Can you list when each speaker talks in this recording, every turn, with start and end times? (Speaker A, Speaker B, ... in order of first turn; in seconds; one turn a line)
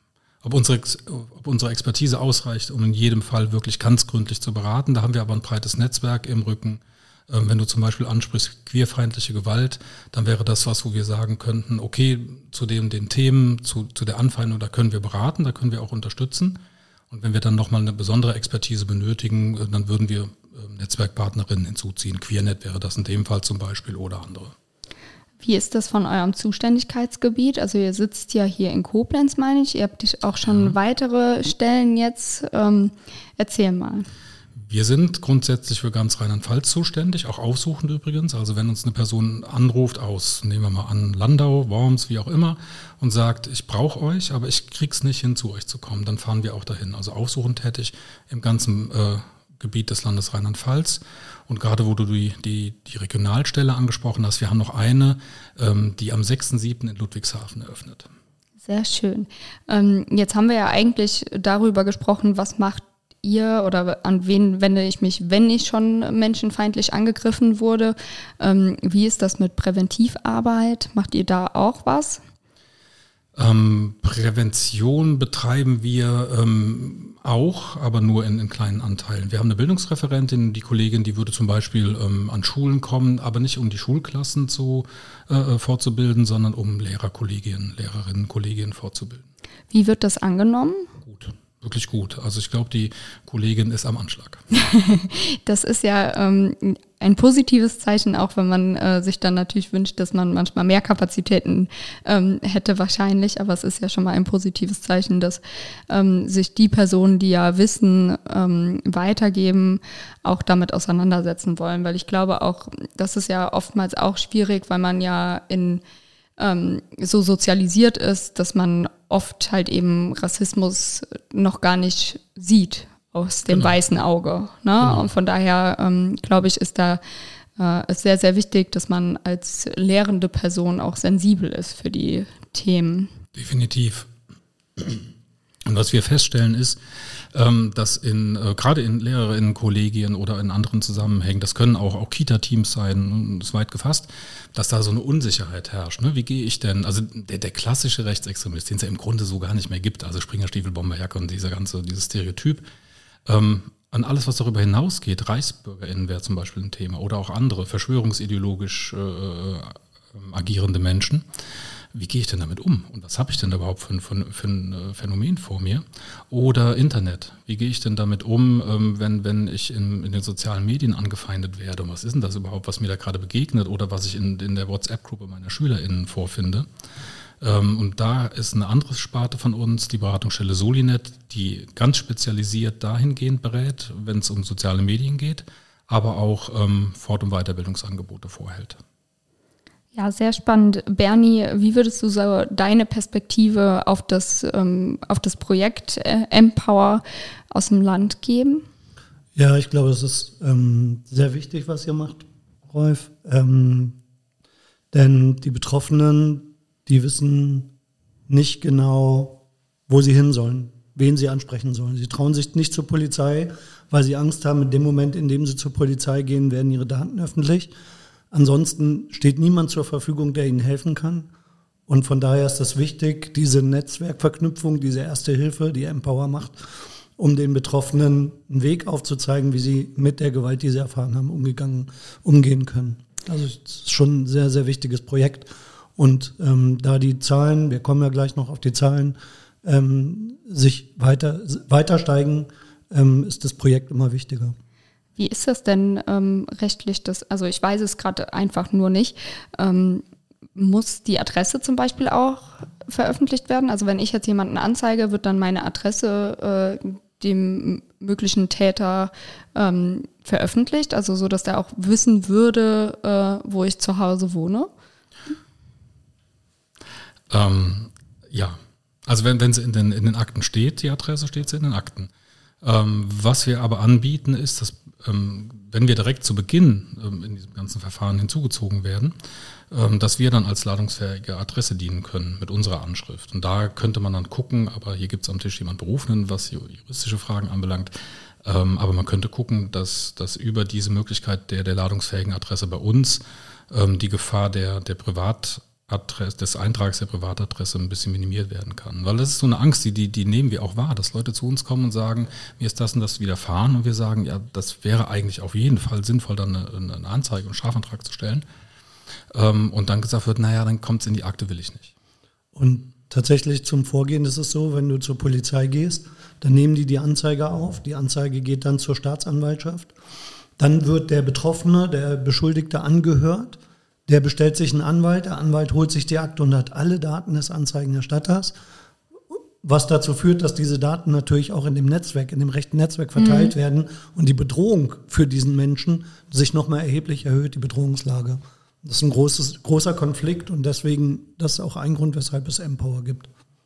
Speaker A: 0.4-24.5
Speaker B: 25.4-34.1
Speaker A: 34.6-58.1
Speaker B: 58.6-72.2
Speaker A: 73.4-89.3
Speaker B: 89.7-90.9
Speaker A: 91.0-94.4
Speaker B: 94.5-115.8
Speaker B: 116.4-127.0
Speaker A: 124.8-125.1
Speaker B: 127.6-133.1
Speaker A: 133.3-134.1
Speaker A: 134.8-135.1
Speaker A: 135.7-136.8
Speaker A: 137.3-152.6
Speaker A: 153.3-161.2
Speaker A: 161.9-176.7
Speaker A: 177.4-188.8
Speaker B: 189.9-198.7
Speaker C: 199.3-204.0
Speaker C: 204.9-207.7
Speaker C: 208.3-217.7
Speaker C: 218.3-221.3
Speaker C: 221.9-226.6
Speaker C: 227.2-244.6
Speaker B: 245.2-264.7
Speaker A: 267.3-272.1
Speaker A: 272.6-279.1
Speaker A: 279.7-308.4
Speaker A: 309.3-311.9
Speaker C: 312.6-319.9
Speaker C: 320.6-328.5
Speaker C: 329.3-343.3
Speaker B: 333.2-333.5